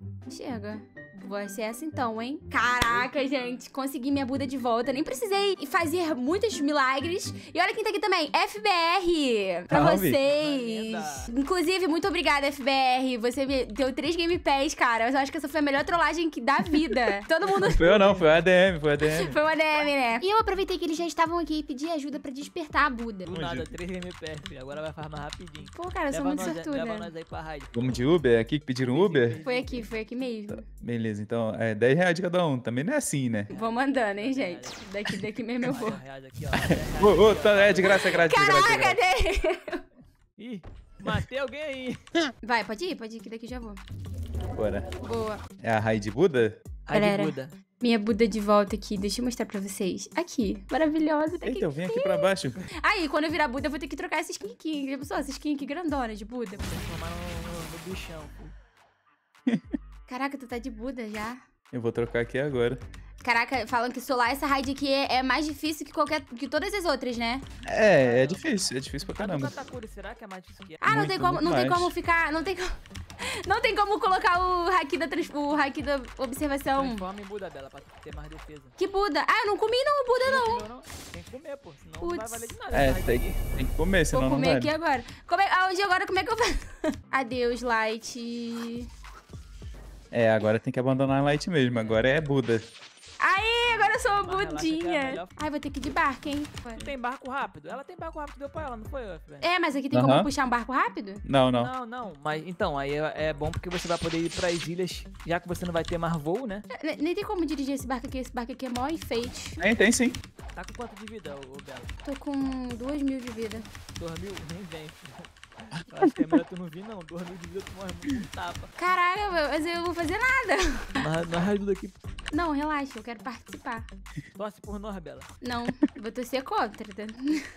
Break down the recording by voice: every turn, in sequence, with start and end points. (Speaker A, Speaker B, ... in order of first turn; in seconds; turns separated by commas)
Speaker A: 0.3-18.2, Speaker B: 9.7-10.2, Speaker C: 10.3-11.3, Speaker B: 17.7-19.4, Speaker A: 19.1-23.3, Speaker C: 23.3-27.8, Speaker B: 23.3-23.7, Speaker A: 25.7-27.1, Speaker B: 27.8-29.4, Speaker C: 28.8-29.9, Speaker A: 29.4-30.6, Speaker B: 30.6-33.5, Speaker C: 33.5-34.8, Speaker A: 33.5-36.0, Speaker C: 35.7-38.0, Speaker B: 36.5-39.0, Speaker A: 37.8-39.8, Speaker C: 40.4-42.0, Speaker A: 42.4-43.8, Speaker B: 44.5-44.9, Speaker A: 45.0-45.4, Speaker B: 45.6-46.6, Speaker C: 46.9-47.5, Speaker A: 46.9-56.6, Speaker B: 51.4-52.6, Speaker C: 56.6-58.5, Speaker B: 59.5-59.8, Speaker A: 60.1-61.4, Speaker B: 61.7-62.8, Speaker A: 63.2-67.5, Speaker B: 67.6-69.6, Speaker C: 68.0-71.1, Speaker A: 70.8-72.8, Speaker B: 70.9-71.9, Speaker A: 73.4-77.0, Speaker C: 76.7-78.8, Speaker A: 78.8-80.7, Speaker C: 80.2-83.4, Speaker A: 82.0-82.5, Speaker B: 82.7-84.7, Speaker A: 84.1-88.9, Speaker B: 90.1-92.7, Speaker C: 91.7-92.1, Speaker A: 93.2-96.9, Speaker C: 93.8-95.4, Speaker C: 96.8-99.5, Speaker A: 99.4-101.2, Speaker B: 99.9-100.3, Speaker B: 101.3-101.7, Speaker C: 101.5-106.7, Speaker A: 106.8-109.7, Speaker B: 109.6-110.2, Speaker C: 110.6-111.9, Speaker A: 112.0-113.7, Speaker C: 114.0-118.7, Speaker A: 118.8-121.0, Speaker C: 121.0-122.0, Speaker A: 122.3-123.9, Speaker C: 124.3-125.3, Speaker A: 125.4-127.4